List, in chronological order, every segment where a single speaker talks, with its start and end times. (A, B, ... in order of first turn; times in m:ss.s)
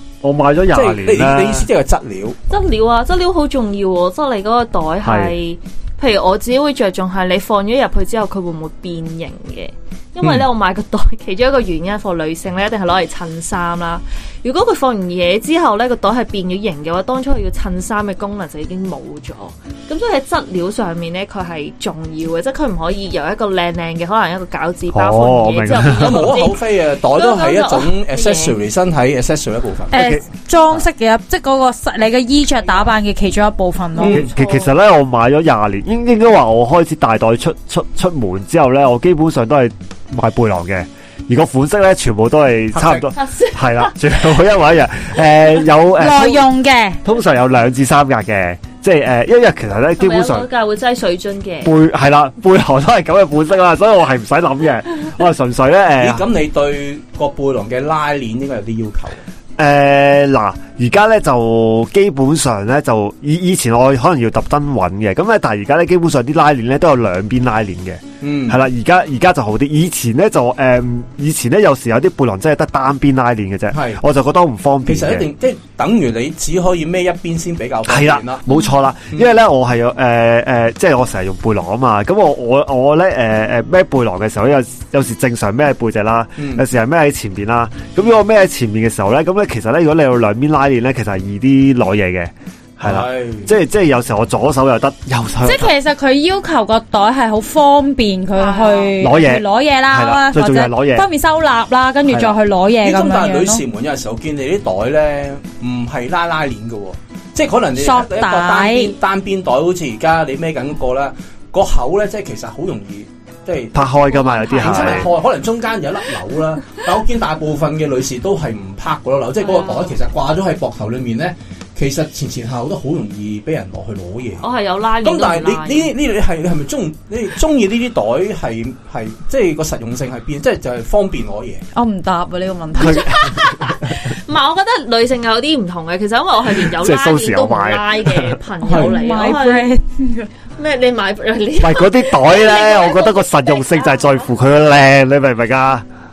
0:00.2-0:01.7 A
0:00.7-0:02.4 B
0:02.5-0:28.6 C
0:05.0-0:05.3 A
0:24.9-0:26.4 A
0:25.9-0:30.2 B
0:29.9-0:34.2 D
0:29.9-0:30.2 A
0:34.0-0:34.3 B
0:34.0-0:46.5 A
0:34.1-0:34.7 C
0:43.0-0:44.0 C
0:46.0-0:47.0 D
0:47.0-0:50.5 A
0:50.0-0:51.7 C
0:51.6-0:56.2 A
0:56.0-0:59.2 B
0:59.6-1:15.3 A
1:08.2-1:08.6 B
1:13.7-1:14.0 B
1:14.8-1:18.4 B
1:17.9-1:35.7 A
1:26.4-1:26.6 B
1:32.8-1:33.6 B
1:35.4-1:43.6 D
1:38.5-1:38.9 C
1:39.0-1:41.1 A
1:42.8-2:04.4 B
1:47.8-1:48.9 D
1:53.7-1:55.1 A
1:54.5-1:54.9 C
1:59.4-1:59.9 C
2:04.4-2:05.9 C
2:05.0-2:11.6 B
2:11.7-2:13.1 D
2:12.8-2:13.7 A
2:12.9-2:19.7 C
2:16.7-2:18.4 A
2:18.6-2:18.9 B
2:18.7-2:20.3 D
2:20.6-2:24.3 C
2:21.6-2:25.8 A